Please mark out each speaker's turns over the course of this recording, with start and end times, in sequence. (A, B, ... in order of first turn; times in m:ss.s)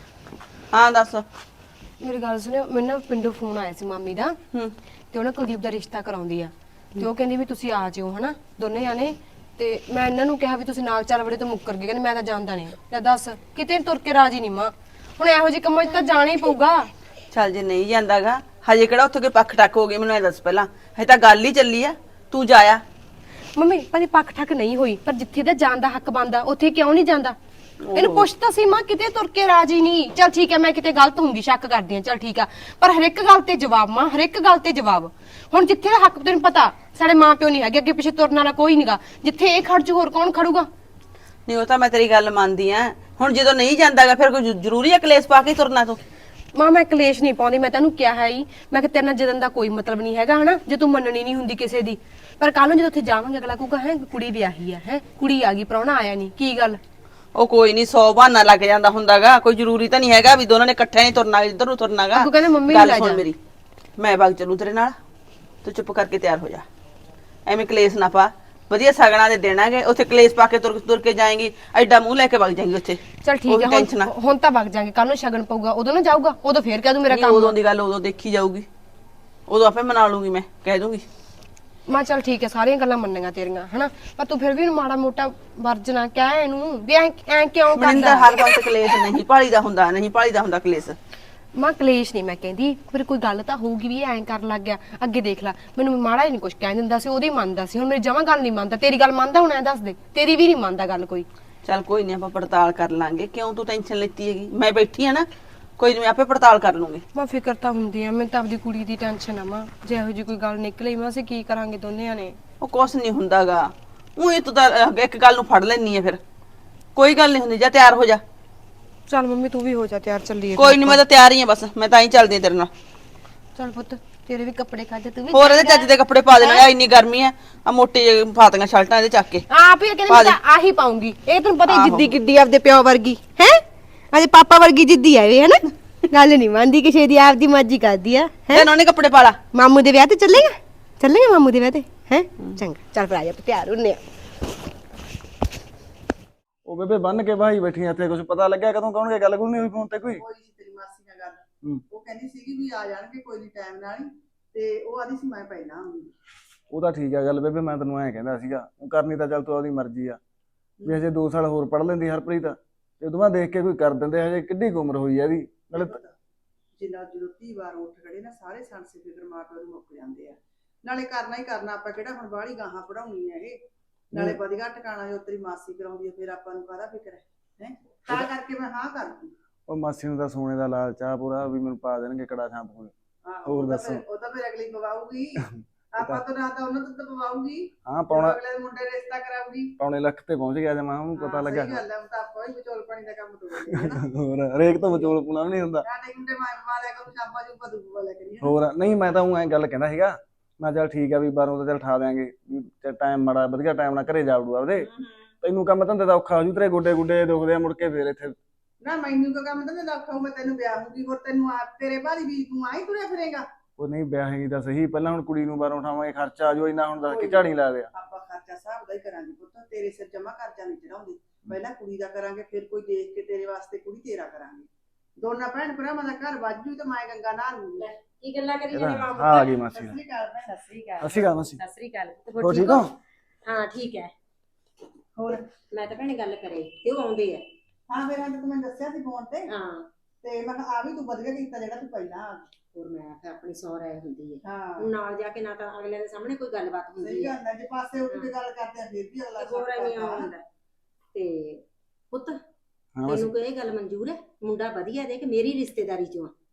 0:00.7-0:01.2 A
0:02.0-0:04.4 B
0:05.1-0:16.9 B
0:17.3-0:22.8 A
0:23.6-0:27.4 B
0:27.9-0:28.3 A
0:27.9-0:40.7 B
0:41.5-0:46.0 A
0:46.5-0:56.8 B
0:57.3-1:03.3 A
1:02.1-1:03.2 B
1:04.0-1:05.0 A
1:05.6-1:06.6 A
1:07.4-1:14.1 A
1:13.2-1:17.6 B
1:17.1-1:18.7 A
1:19.5-1:21.0 A
1:21.9-1:28.7 B
1:27.7-1:31.0 A
1:31.5-1:41.2 B
1:41.6-1:45.3 A
1:45.8-1:47.0 A
1:47.1-1:52.4 B
1:52.6-1:56.2 A
1:57.0-1:58.2 A
1:59.1-2:01.0 B
2:00.6-2:02.7 A
2:03.6-2:06.7 B
2:05.3-2:09.4 A
2:09.5-2:18.7 B
2:10.1-2:10.4 A
2:11.7-2:12.1 A
2:18.5-2:19.4 A
2:19.5-2:24.0 B
2:26.6-2:30.2 C
2:30.1-2:36.1 D
2:36.7-2:40.2 C
2:40.8-2:46.0 C
2:45.7-2:46.1 D
2:46.8-2:53.6 D
2:54.1-2:54.4 C
2:54.1-2:59.3 D
2:59.7-3:02.9 C
3:03.2-3:09.7 D
3:03.4-3:04.0 C
3:05.4-3:06.2 C
3:07.8-3:08.4 C
3:09.8-3:11.8 C
3:11.2-3:14.0 D
3:13.7-3:15.8 C
3:15.8-3:18.5 D
3:18.4-3:24.9 C
3:25.4-3:28.4 C
3:28.8-3:33.5 D
3:33.8-3:37.9 C
3:37.1-3:44.7 D
3:45.2-3:47.8 D
3:47.8-3:49.5 E
3:48.7-3:50.0 C
3:49.4-3:50.5 D
3:50.4-3:52.9 E
3:51.0-3:51.6 C
3:52.4-3:52.9 C
3:53.4-3:54.1 E
3:55.2-3:55.4 D
3:55.7-3:57.4 E
3:57.9-3:59.5 D
3:59.5-3:59.8 E
4:00.2-4:02.4 D
4:02.7-4:07.3 E
4:04.4-4:04.9 D
4:07.0-4:10.3 D
4:09.4-4:10.4 E
4:11.1-4:12.4 E
4:13.0-4:13.3 C
4:13.1-4:16.3 E